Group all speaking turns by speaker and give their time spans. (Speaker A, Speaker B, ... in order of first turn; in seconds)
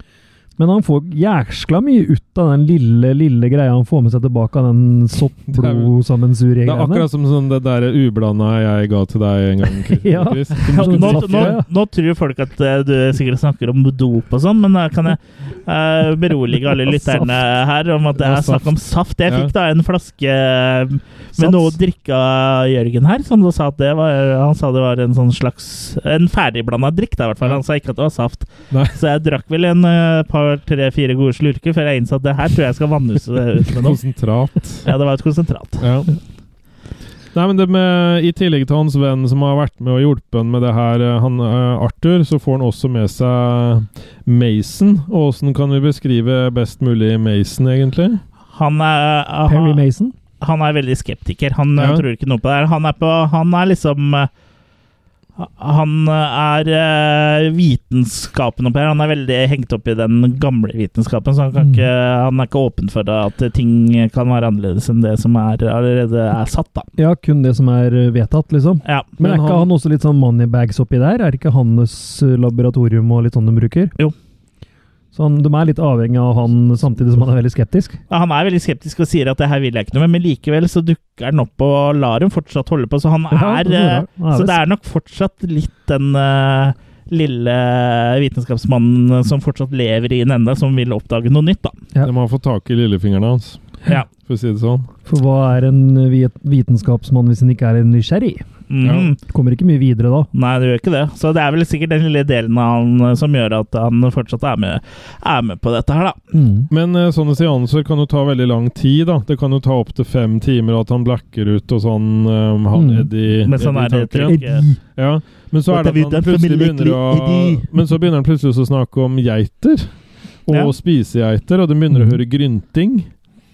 Speaker A: 0.6-7.1, 10.0-11.7, 16.9-17.2, 21.4-21.7, 49.5-50.1, 67.0-73.9, 75.1-78.0, 83.3-84.6, 95.0-98.4, 99.2-100.3, 106.3-106.7, 112.7-113.1, 114.3-114.8, 121.9-122.2
Speaker B: 5.5-5.9, 6.6-11.6, 18.2-18.7, 19.3-19.5, 28.7-29.0, 33.7-34.9, 35.8-36.1, 37.3-48.2, 51.8-52.0, 69.2-69.7, 92.0-94.9, 98.8-99.1, 106.7-119.9, 120.5-123.1
Speaker C: 10.7-34.0, 34.8-35.9, 48.5-49.8, 50.4-54.3, 55.4-66.9, 78.1-91.8, 98.7-99.2, 100.3-106.2, 113.5-114.6, 115.7-117.7